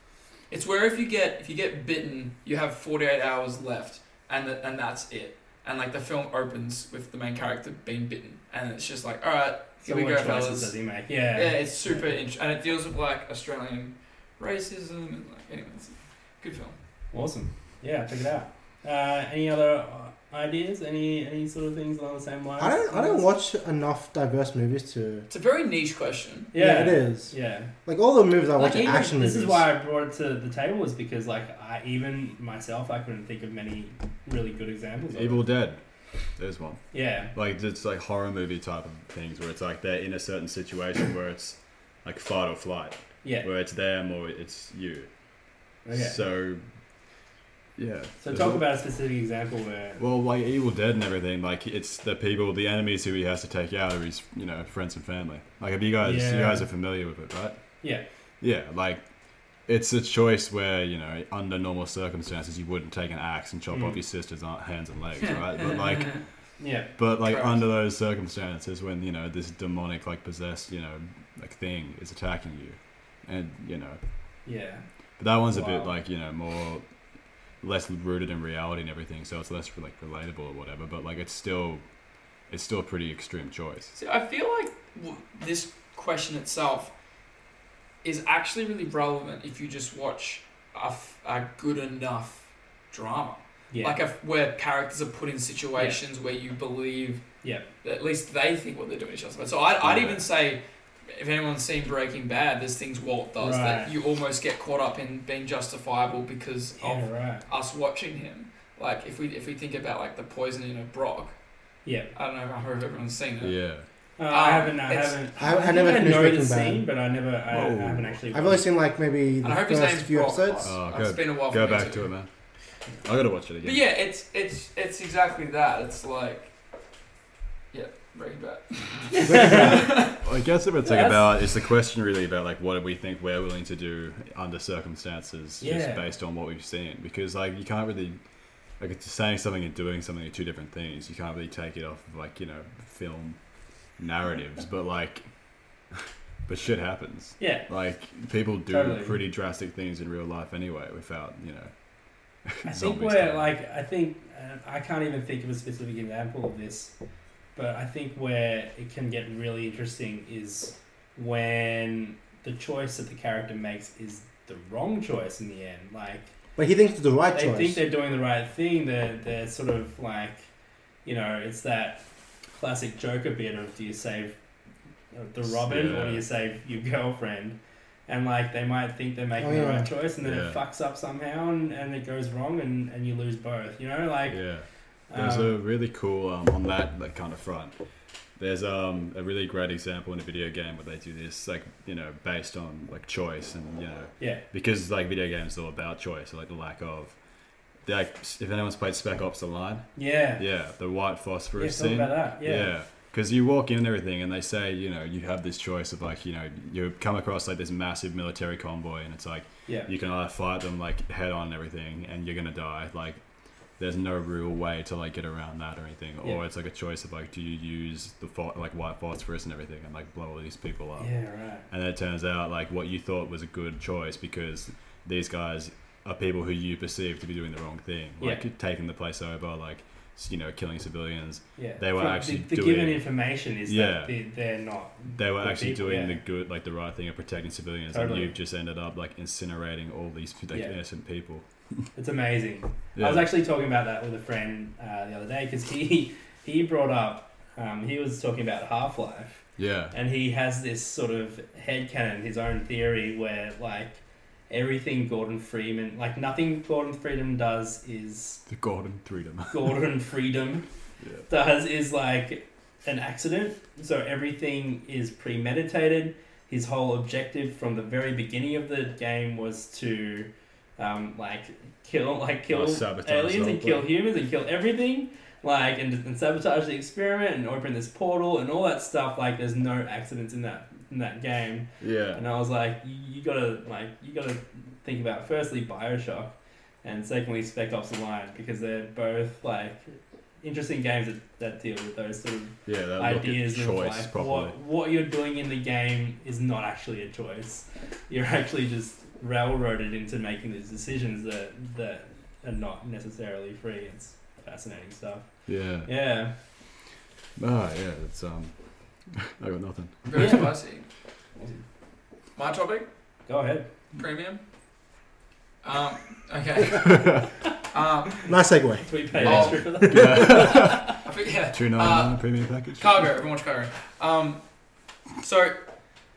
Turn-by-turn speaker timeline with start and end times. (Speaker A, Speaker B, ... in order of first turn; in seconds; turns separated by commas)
Speaker A: 0.5-10.8, Speaker B: 9.8-12.1, Speaker A: 11.3-16.8, Speaker B: 17.1-23.2, Speaker C: 22.6-25.3, Speaker A: 25.3-26.5, Speaker B: 26.5-27.7, Speaker C: 26.6-29.7, Speaker B: 28.6-35.4, Speaker D: 35.1-35.8, Speaker D: 36.4-45.1, Speaker B: 36.9-37.3, Speaker B: 45.9-46.2, Speaker D: 45.9-46.6, Speaker D: 47.8-48.6, Speaker B: 48.2-50.0, Speaker D: 50.0-57.6, Speaker B: 56.0-56.7, Speaker D: 58.4-59.0, Speaker D: 59.6-66.2, Speaker B: 63.7-64.0, Speaker A: 65.3-66.2, Speaker B: 66.6-66.9, Speaker D: 67.0-74.0, Speaker A: 67.2-67.6, Speaker B: 74.5-74.8, Speaker D: 75.2-76.8, Speaker B: 75.5-76.0, Speaker D: 77.6-81.8, Speaker D: 82.5-83.9, Speaker A: 84.0-86.9, Speaker A: 88.0-97.2, Speaker B: 93.7-94.0, Speaker B: 95.8-96.0, Speaker B: 97.4-97.7, Speaker A: 97.8-111.4, Speaker D: 99.8-100.2, Speaker B: 103.4-103.9, Speaker B: 106.8-107.5, Speaker B: 111.8-112.1, Speaker A: 112.2-113.6, Speaker D: 113.4-113.9, Speaker B: 114.2-118.7, Speaker A: 114.3-115.2, Speaker C: 115.4-116.8, Speaker D: 117.5-118.2, Speaker C: 118.3-120.7, Speaker A: 119.4-122.1, Speaker D: 120.6-122.3, Speaker D: 123.0-123.8, Speaker A: 123.6-126.5, Speaker A: 127.7-130.2, Speaker B: 129.2-129.9, Speaker D: 129.3-138.2, Speaker B: 130.8-131.2, Speaker B: 135.6-136.1, Speaker D: 138.8-143.4, Speaker D: 144.0-145.2, Speaker D: 146.5-151.7, Speaker B: 147.4-147.7, Speaker B: 148.7-149.2, Speaker D: 152.4-153.5, Speaker B: 152.7-156.9, Speaker B: 157.6-166.3, Speaker C: 166.6-167.8, Speaker B: 167.3-170.5, Speaker B: 171.1-174.4, Speaker B: 175.1-184.4, Speaker D: 175.4-176.2, Speaker C: 179.4-179.9, Speaker D: 180.2-180.6, Speaker D: 184.3-187.8, Speaker B: 185.1-185.6, Speaker D: 188.4-197.2, Speaker D: 197.8-213.2, Speaker B: 200.0-200.4, Speaker B: 201.6-202.7, Speaker D: 213.8-221.1, Speaker B: 221.0-221.7, Speaker D: 221.7-233.1, Speaker B: 231.6-236.2, Speaker D: 233.7-234.1, Speaker D: 235.1-241.8, Speaker B: 237.9-238.3, Speaker B: 241.9-258.4, Speaker D: 242.9-243.3, Speaker D: 249.6-249.9, Speaker D: 258.5-259.8, Speaker B: 259.5-260.7, Speaker D: 261.0-261.3, Speaker B: 261.3-305.3, Speaker D: 272.5-273.9, Speaker D: 281.8-282.2, Speaker D: 292.7-294.6, Speaker D: 305.5-305.9, Speaker B: 305.8-306.3, Speaker D: 307.4-308.6, Speaker D: 309.1-310.5, Speaker A: 310.1-310.9, Speaker B: 310.1-310.5, Speaker B: 311.4-311.6, Speaker A: 312.4-312.9, Speaker B: 313.3-313.7, Speaker A: 313.9-314.4, Speaker A: 315.6-318.3, Speaker C: 318.3-320.5, Speaker B: 318.8-320.7, Speaker D: 319.2-321.0, Speaker A: 319.2-322.2, Speaker D: 321.5-323.1, Speaker A: 322.7-324.4, Speaker A: 325.2-325.6